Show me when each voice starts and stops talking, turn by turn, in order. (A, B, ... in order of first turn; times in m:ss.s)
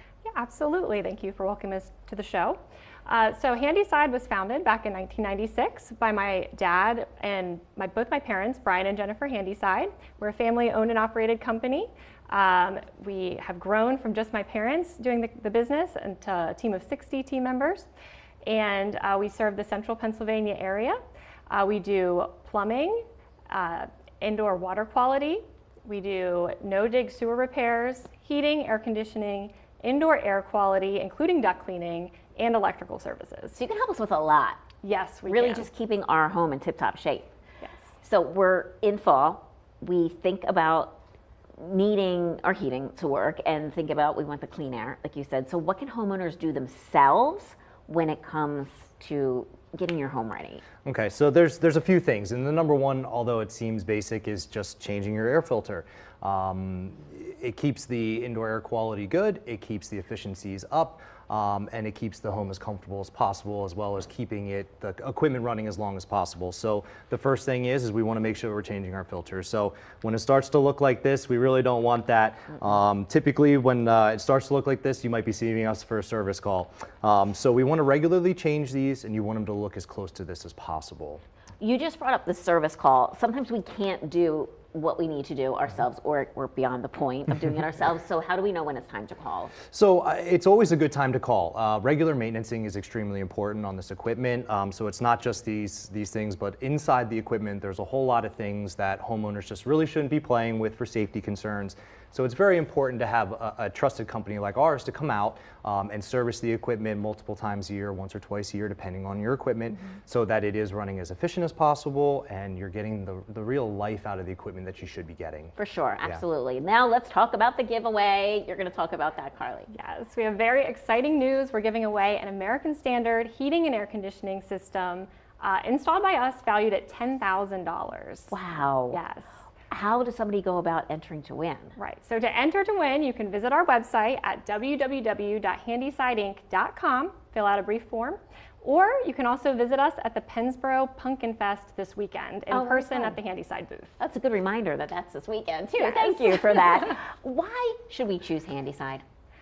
0:00.3-0:17.9 A
0:18.4-0:33.6 A
0:33.6-0:34.6 B
0:34.8-0:35.7 A
0:35.3-0:37.3 B
0:38.0-0:41.0 B
0:41.6-0:50.6 B
0:50.8-1:21.2 C
1:21.6-1:29.5 B
1:29.7-1:56.2 C
1:55.6-1:59.7 B
1:59.7-2:08.4 A
2:08.3-2:09.0 B
2:08.9-2:09.3 A
2:09.7-2:11.8 B
2:11.8-2:23.9 A
2:22.5-2:23.2 B
2:24.0-2:29.0 B
2:25.8-2:26.8 A